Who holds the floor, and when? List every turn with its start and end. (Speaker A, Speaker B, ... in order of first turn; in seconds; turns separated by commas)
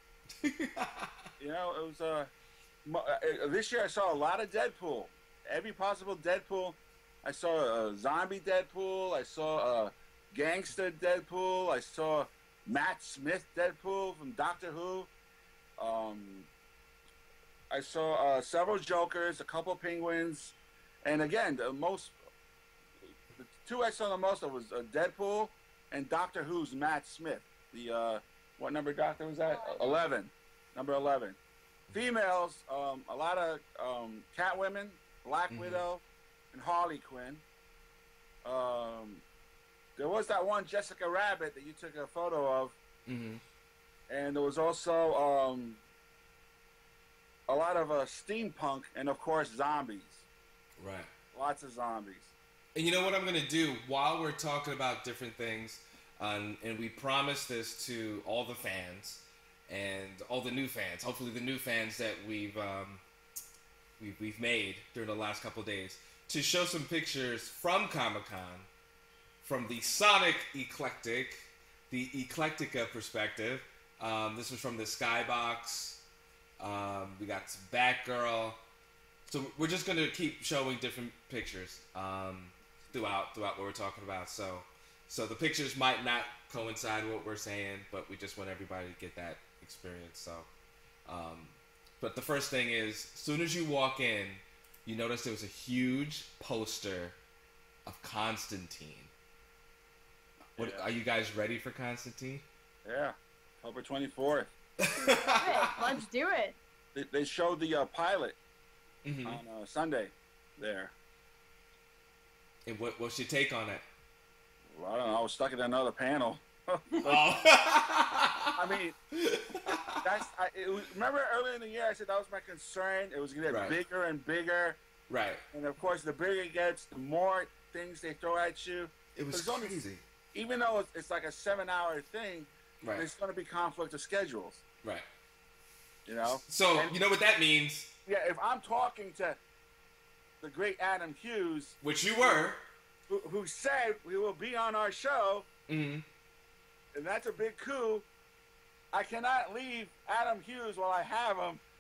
Speaker A: 0.4-1.1, Speaker B: 1.4-2.3, Speaker B: 2.9-15.1, Speaker B: 15.8-16.5, Speaker B: 17.7-22.2, Speaker B: 23.4-31.4, Speaker C: 29.4-30.1, Speaker B: 31.9-37.4, Speaker A: 35.5-35.8, Speaker B: 38.4-39.2, Speaker B: 40.0-42.8, Speaker A: 43.1-43.4, Speaker B: 44.1-45.8, Speaker B: 47.5-50.2, Speaker A: 50.8-51.1, Speaker B: 51.3-52.3, Speaker A: 52.8-63.0, Speaker A: 64.0-68.7, Speaker A: 69.4-76.0, Speaker A: 76.6-78.6, Speaker A: 79.3-90.5, Speaker A: 91.1-97.2, Speaker A: 97.9-99.1, Speaker A: 100.6-102.4, Speaker B: 100.6-100.9, Speaker B: 102.8-104.5, Speaker A: 104.8-105.7, Speaker C: 105.0-106.6, Speaker B: 107.0-108.4, Speaker A: 109.0-109.4, Speaker B: 109.2-110.9, Speaker A: 112.7-113.8, Speaker B: 114.7-117.3, Speaker A: 117.0-118.5, Speaker B: 118.6-119.0, Speaker A: 119.2-120.0, Speaker B: 120.0-124.8, Speaker A: 123.5-123.8, Speaker A: 125.1-125.4, Speaker B: 125.5-129.8, Speaker A: 129.2-130.0, Speaker B: 130.3-134.6, Speaker A: 132.8-133.1, Speaker B: 136.1-136.9, Speaker A: 136.3-137.9, Speaker B: 138.1-139.4, Speaker B: 140.4-142.4, Speaker A: 141.8-142.6, Speaker B: 143.1-145.5, Speaker A: 145.7-146.0, Speaker B: 146.9-148.1, Speaker B: 148.9-151.6